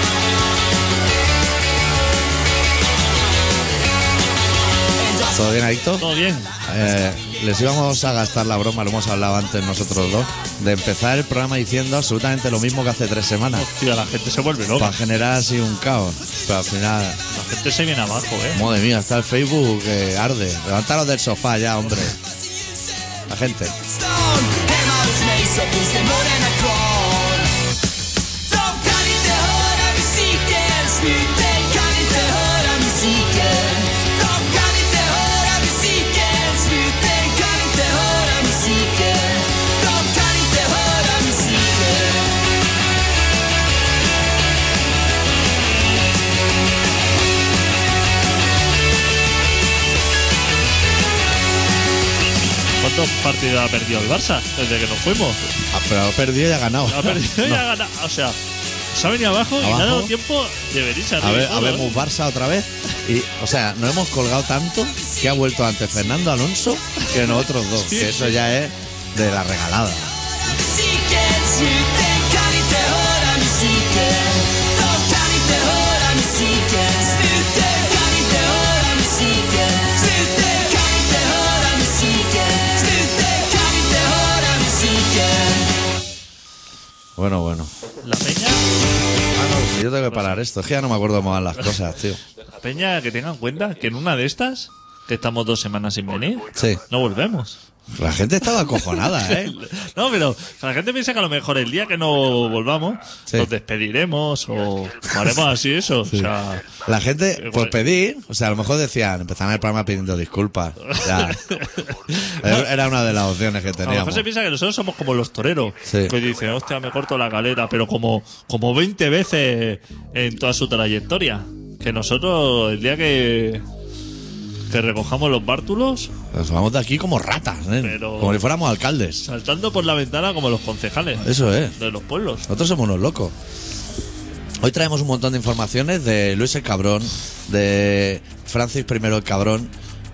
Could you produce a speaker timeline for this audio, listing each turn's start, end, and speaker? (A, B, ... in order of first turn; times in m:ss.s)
0:05.0-0:05.4 A
0:05.3-0:06.1 B
0:06.0-0:06.5 C
0:06.7-0:13.7 B
0:13.5-0:15.0 C
0:14.8-0:17.2 B
0:17.3-0:18.6 C
0:18.5-0:22.2 B
0:23.3-0:23.8 B
0:24.0-0:27.6 A
0:28.5-0:42.4 A
0:52.8-0:55.5 C
0:55.7-0:57.7 B
0:56.9-0:58.4 C
0:58.9-1:02.0 C
0:59.6-1:00.1 B
1:01.2-1:10.1 B
1:07.0-1:08.4 C
1:10.5-1:25.7 A
1:27.2-1:27.7 B
1:28.0-1:28.6 C
1:29.3-1:32.2 B
1:30.1-1:30.4 C
1:32.6-1:37.6 C
1:36.6-1:36.8 B
1:37.9-1:39.6 B
1:38.7-1:46.8 C
1:46.8-1:51.6 B
1:47.4-1:47.8 C
1:50.8-1:52.7 C
1:52.4-1:54.3 B
1:53.8-2:03.6 C
1:55.9-1:56.2 B
2:04.7-2:06.1 C
2:06.3-2:09.2 B
2:07.8-2:08.4 C
2:09.2-2:12.5 C
2:11.2-2:11.8 B
2:12.5-2:13.4 B
2:14.6-2:19.7 B